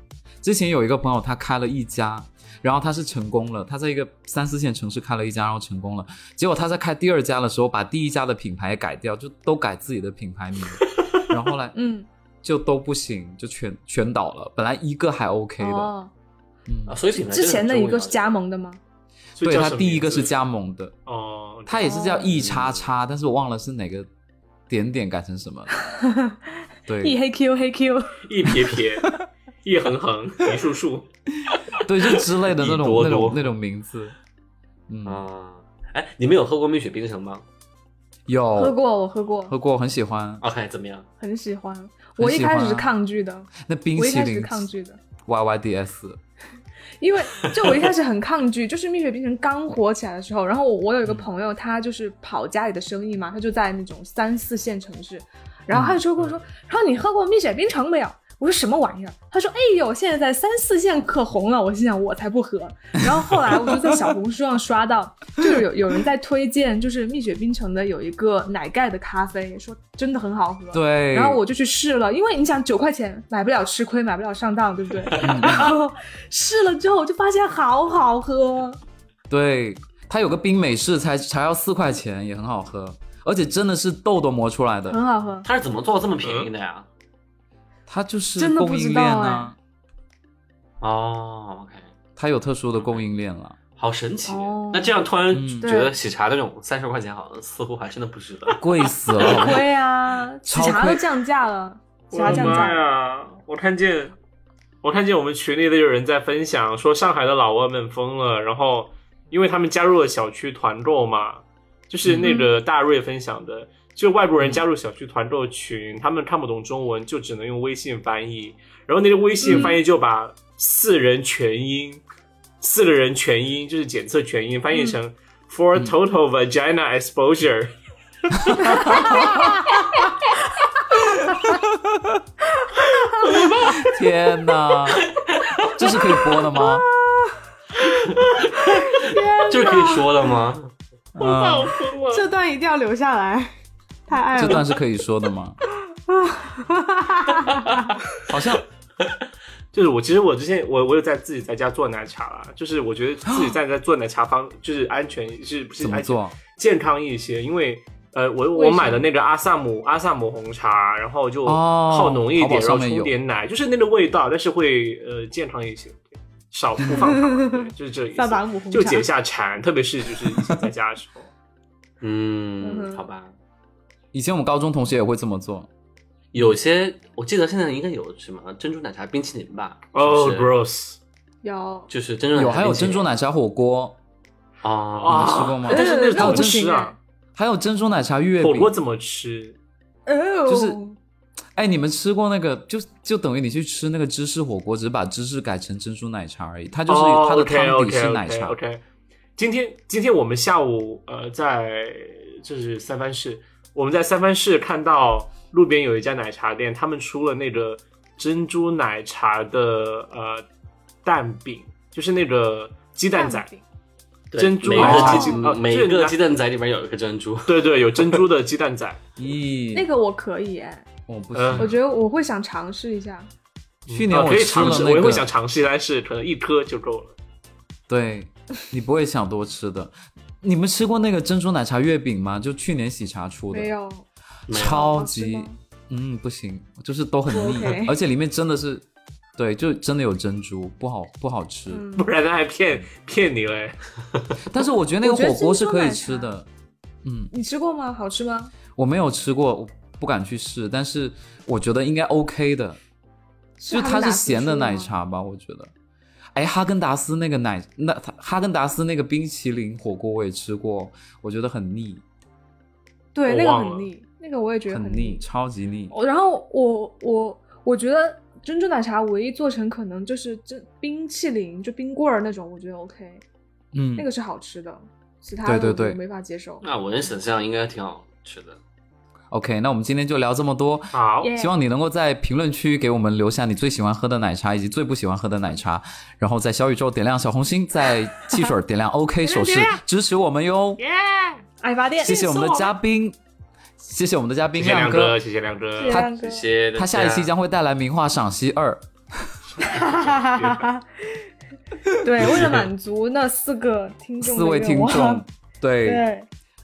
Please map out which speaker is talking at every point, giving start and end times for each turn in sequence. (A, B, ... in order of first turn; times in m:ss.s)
0:00.4-0:11.7 A
0:11.7-0:12.1 B
0:12.4-0:15.9 A
0:15.6-0:16.1 B
0:16.6-0:17.0 A
0:16.8-0:18.3 C
0:17.1-0:18.8 B
0:19.4-0:20.3 D
0:19.4-0:20.9 A
0:21.0-0:21.9 D
0:21.7-0:24.1 A
0:21.8-0:22.4 B
0:22.2-0:22.9 C
0:24.7-0:25.7 A
0:25.8-0:26.4 B
0:26.9-0:27.2 A
0:27.0-0:28.2 B
0:28.2-0:31.0 D
0:31.8-0:33.4 C
0:31.8-0:34.1 A
0:34.9-0:35.2 A
0:35.0-0:37.4 C
0:38.3-0:38.8 A
0:38.6-0:39.5 B
0:39.5-0:40.4 A
0:40.4-0:41.0 C
0:41.2-0:45.0 B
0:42.2-0:42.9 A
0:43.6-0:44.7 A
0:45.2-0:46.2 A
0:47.0-1:18.8 B
0:55.7-0:56.0 A
1:03.1-1:03.8 A
1:10.7-1:11.4 A
1:15.1-1:15.6 C
1:15.2-1:15.7 A
1:19.3-1:25.0 A
1:24.9-1:25.4 B
1:25.4-1:26.8 C
1:26.2-1:26.5 D
1:27.9-1:29.6 A
1:28.4-1:29.5 B
1:30.8-1:31.9 C
1:32.2-1:33.6 A
1:32.8-1:33.0 C
1:33.8-1:38.6 C
1:34.2-1:35.0 B
1:35.3-1:35.7 A
1:35.6-1:35.9 B
1:38.6-1:39.6 A
1:39.2-1:42.8 B
1:39.2-1:39.5 C
1:40.4-1:41.0 A
1:42.1-1:44.1 D
1:42.2-1:42.6 A
1:44.8-2:02.0 D
1:52.0-1:52.4 A
1:52.2-1:52.5 B
1:59.4-1:59.8 B
2:02.6-2:07.7 D
2:08.6-2:09.8 B
2:08.9-2:09.3 A
2:11.2-2:11.6 B
2:11.9-2:12.2 A
2:12.5-2:13.8 B
2:13.4-2:15.0 A
2:15.7-2:16.8 A
2:16.3-2:17.4 B
2:18.1-2:20.7 C
2:18.7-2:20.3 B
2:21.2-2:21.7 A
2:21.2-2:22.2 D
2:22.1-2:23.5 B
2:24.1-2:24.7 B
2:24.3-2:25.6 A
2:25.9-2:27.9 B
2:28.2-2:28.6 A
2:29.7-2:51.3 D
2:33.3-2:33.6 A
2:35.8-2:36.4 A
2:38.5-2:39.0 B
2:41.4-2:43.1 A
2:47.0-2:49.0 B
2:52.0-2:53.3 C
2:52.6-2:53.1 B
2:54.1-2:55.7 A
2:56.3-3:00.5 C
2:59.9-3:01.0 D
3:01.4-3:01.9 B
3:01.9-3:03.1 C
3:02.3-3:04.0 A
3:04.6-3:05.5 C
3:05.0-3:06.9 D
3:05.1-3:06.7 A
3:05.7-3:07.0 B
3:07.4-3:08.7 A
3:08.4-3:09.6 D
3:10.1-3:11.0 B
3:10.5-3:10.8 A
3:11.5-3:18.6 A
3:16.9-3:18.8 D
3:19.4-3:30.4 D
3:31.0-3:33.5 D
3:33.1-3:33.6 B
3:34.3-3:38.0 C
3:34.4-3:36.2 D
3:34.7-3:35.4 A
3:34.8-3:35.4 B
3:37.4-3:39.0 D
3:39.2-3:39.9 A
3:39.7-3:40.9 B
3:41.1-3:41.8 A
3:41.3-3:41.7 D
3:41.6-3:43.3 B
3:43.9-3:47.1 D
3:43.9-3:45.3 A
3:47.9-3:53.7 A
3:53.5-3:54.0 B
3:54.5-3:58.8 A
3:54.5-3:55.0 C
3:54.6-3:55.6 B
3:57.3-3:58.0 B
3:59.4-4:01.8 A
4:01.7-4:02.1 B
4:02.0-4:03.8 D
4:04.4-4:06.5 A
4:05.0-4:06.3 B
4:07.0-4:07.3 A
4:07.3-4:08.5 B
4:08.8-4:12.8 A
4:13.6-4:14.9 B
4:13.7-4:15.7 A
4:16.3-4:22.0 A
4:23.1-4:25.2 B
4:23.2-4:23.9 D
4:24.7-4:25.9 A
4:25.9-4:33.2 B
4:33.7-4:34.1 A
4:34.0-4:36.6 B
4:35.4-4:36.0 A
4:36.6-4:38.6 C
4:39.3-4:50.8 A
4:40.9-4:41.3 D
4:41.2-4:41.5 B
4:49.3-4:49.7 B
4:50.8-4:51.4 D
4:51.6-4:52.6 B
4:52.0-4:53.2 A
4:52.1-4:52.7 D
4:53.8-4:55.2 A
4:54.6-4:56.0 D
4:55.8-4:56.4 B
4:56.0-4:57.3 C
4:56.7-4:59.3 A
4:59.6-5:00.7 D
4:59.6-5:01.2 B
5:02.0-5:05.2 B
5:04.2-5:06.0 A
5:05.8-5:06.3 B